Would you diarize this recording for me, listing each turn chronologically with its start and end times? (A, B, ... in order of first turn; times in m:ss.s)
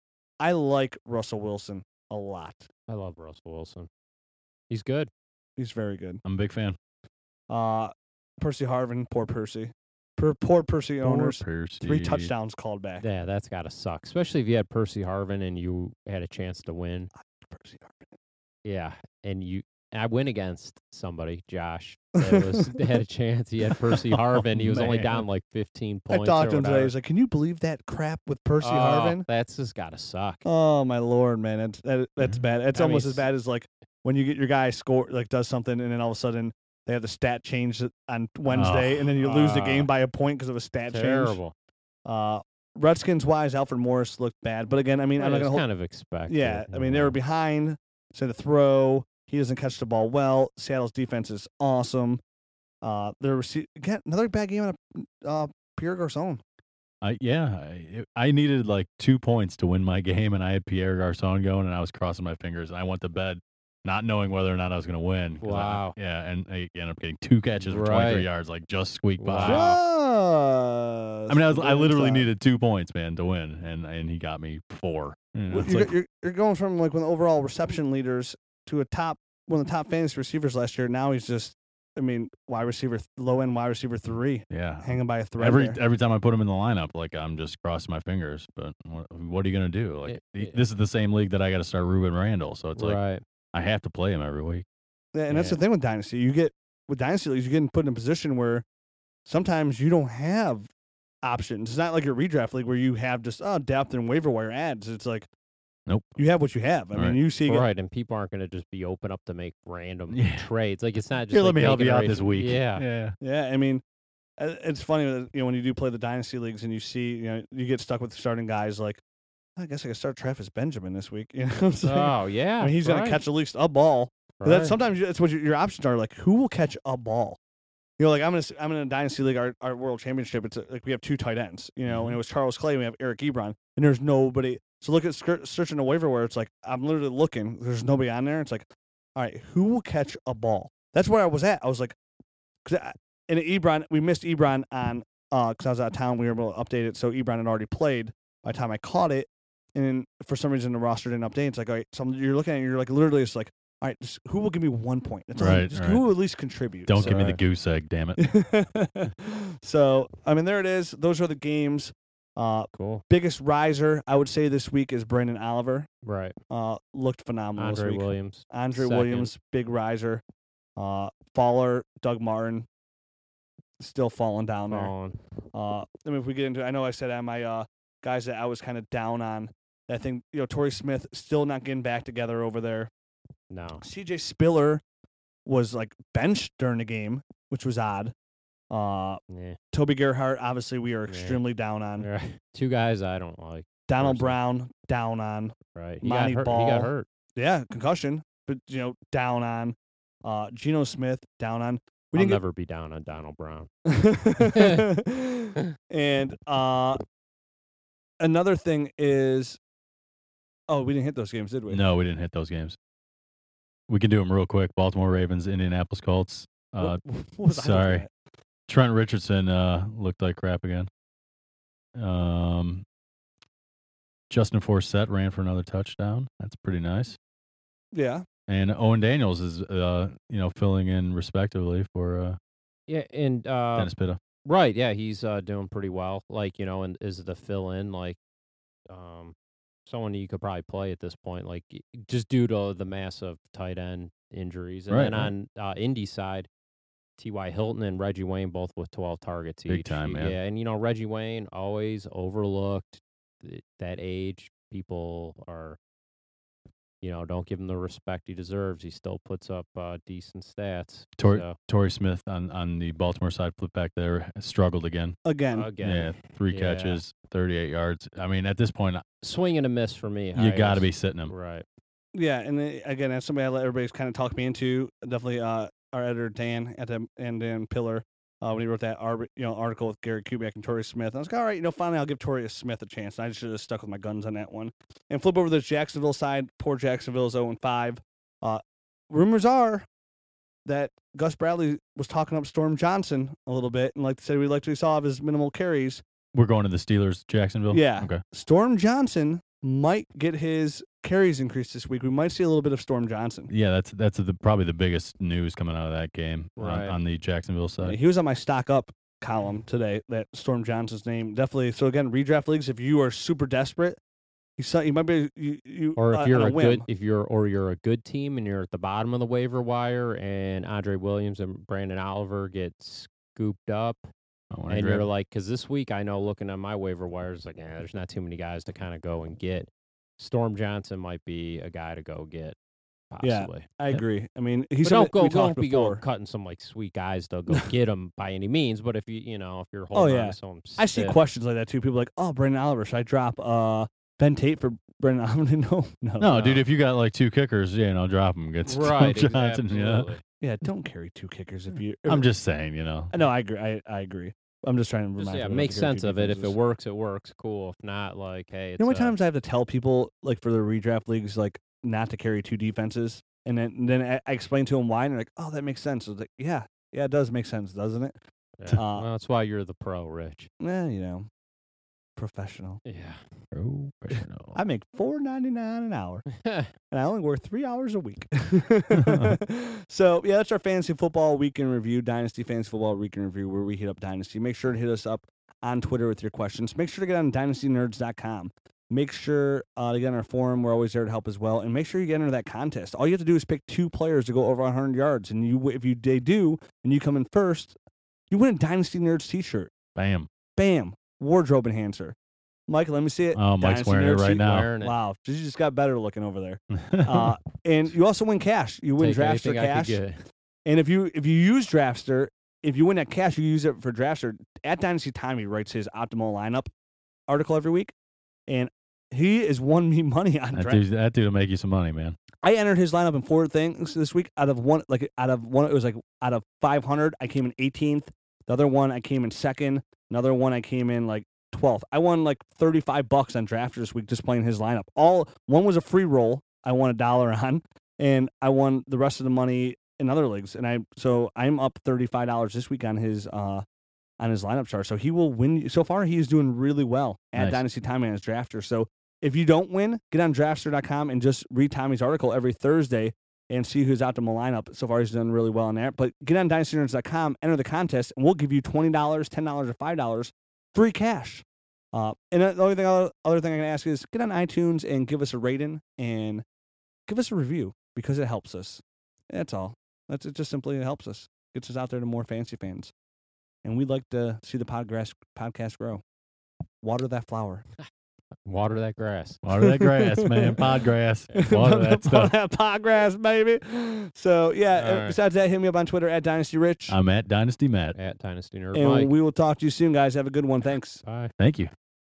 0:00.4-0:02.7 A
0:02.9-0:03.9 B
0:04.7-0:05.1 B
0:05.6-0:06.2 A
0:06.2-0:06.8 C
0:07.5-0:13.0 A
0:11.0-0:12.3 C
0:13.0-0:17.1 B
0:17.4-0:18.2 A
0:18.6-0:26.9 B
0:22.2-0:22.8 A
0:24.4-0:25.2 C
0:26.1-0:29.3 A
0:28.6-0:30.4 B
0:30.4-0:41.4 A
0:32.7-0:33.2 B
0:38.5-0:39.1 C
0:39.2-0:39.9 B
0:40.9-0:41.5 B
0:42.1-0:45.7 A
0:45.2-0:47.2 B
0:46.3-0:52.2 A
0:52.8-0:56.4 A
0:57.0-1:09.8 C
1:05.4-1:06.0 B
1:07.7-1:08.3 B
1:09.2-1:09.8 B
1:09.4-1:12.3 A
1:11.3-1:16.0 C
1:15.5-1:25.8 A
1:24.5-1:33.0 C
1:30.1-1:30.6 B
1:32.8-1:33.2 B
1:33.5-1:34.6 C
1:35.2-1:38.6 A
1:35.3-1:35.6 B
1:39.3-1:40.7 A
1:41.2-1:45.3 A
1:45.9-1:46.2 C
1:46.2-1:47.7 A
1:46.9-1:47.2 C
1:47.5-1:52.8 B
1:50.1-1:50.4 C
1:51.3-1:53.2 C
1:53.2-1:53.8 A
1:54.4-1:59.0 A
1:59.6-2:07.4 A
2:01.8-2:03.2 B
2:04.4-2:04.8 B
2:08.0-2:18.6 A
2:19.2-2:22.0 A
2:22.7-2:37.2 A
2:35.4-2:36.0 C
2:36.9-2:38.2 C
2:37.0-2:37.4 B
2:38.2-2:45.9 A
2:42.7-2:43.0 B
2:46.0-2:46.4 B
2:46.5-2:50.2 A
2:47.6-2:49.3 B
2:50.8-2:52.7 A
2:53.8-2:54.9 A
2:54.7-2:55.2 B
2:55.5-3:02.9 A
3:03.5-3:03.8 B
3:03.8-3:04.8 A
3:05.5-3:08.1 A
3:08.7-3:09.2 A
3:09.3-3:09.6 B
3:09.7-3:12.1 A
3:11.1-3:11.4 B
3:12.0-3:14.4 B
3:13.9-3:22.4 A
3:15.7-3:17.1 B
3:22.1-3:23.7 B
3:23.9-3:27.0 A
3:24.4-3:24.9 B
3:28.2-3:29.6 A
3:30.7-3:31.8 A
3:31.7-3:32.8 C
3:33.9-3:38.0 C
3:36.8-3:38.1 A
3:38.7-3:40.9 C
3:42.0-3:42.8 C
3:44.3-3:47.2 C
3:47.9-3:48.2 A
3:48.5-3:52.4 C
3:52.9-3:53.9 B
3:53.8-3:54.2 C
3:54.4-3:58.2 B
3:58.9-3:59.4 B
3:59.9-4:06.5 B
4:04.9-4:05.3 C
4:07.2-4:15.8 B
4:09.7-4:10.4 C
4:17.0-4:21.6 B
4:21.2-4:25.2 C
4:25.2-4:25.7 A
4:25.5-4:27.0 B
4:25.8-4:29.0 C
4:29.2-4:31.7 B
4:30.4-4:31.3 C
4:32.1-4:49.9 A
4:50.7-4:56.0 A
4:56.3-4:58.2 C
4:57.7-5:03.5 A
5:03.5-5:08.0 C
5:06.6-5:07.0 B
5:07.8-5:14.0 A
5:14.6-5:16.8 A
5:16.0-5:24.1 B
5:24.5-5:25.1 C
5:24.7-5:32.6 B
5:33.1-5:33.7 B
5:33.2-5:36.0 A
5:34.8-5:41.2 B
5:39.9-5:46.4 A
5:46.2-5:50.1 C
5:46.3-5:46.6 B
5:48.6-5:50.2 B
5:50.4-5:52.3 A
5:52.0-5:53.1 C
5:53.1-5:56.6 A
5:55.2-5:59.1 B
5:58.8-6:08.2 A
6:08.6-6:10.5 B
6:08.8-6:09.1 A
6:10.6-6:11.3 A
6:12.2-6:12.8 A
6:12.8-6:13.2 B
6:13.5-6:14.6 C
6:14.1-6:16.3 A
6:16.4-6:16.7 B
6:16.9-6:37.8 A
6:19.0-6:19.4 C
6:38.3-6:39.7 A
6:40.0-6:40.3 C
6:40.6-6:42.2 A
6:42.7-6:50.0 A
6:43.4-6:44.7 C
6:44.4-6:45.0 B
6:46.8-6:47.3 C
6:49.0-6:50.2 B
6:50.7-6:56.7 A
6:57.3-6:57.9 A
6:58.5-7:00.8 A
7:00.5-7:02.2 C
7:02.4-7:23.6 A
7:24.2-7:46.4 A
7:27.4-7:27.6 C
7:47.1-7:52.9 A
7:53.6-7:56.0 A
7:56.8-7:57.6 A
7:58.5-7:59.4 B
7:59.4-8:02.3 C
7:59.6-8:00.7 A
8:01.3-8:07.0 A
8:04.7-8:05.2 B
8:06.9-8:08.0 C
8:07.9-8:09.1 B
8:08.7-8:11.0 A
8:11.0-8:11.3 B
8:11.4-8:11.7 C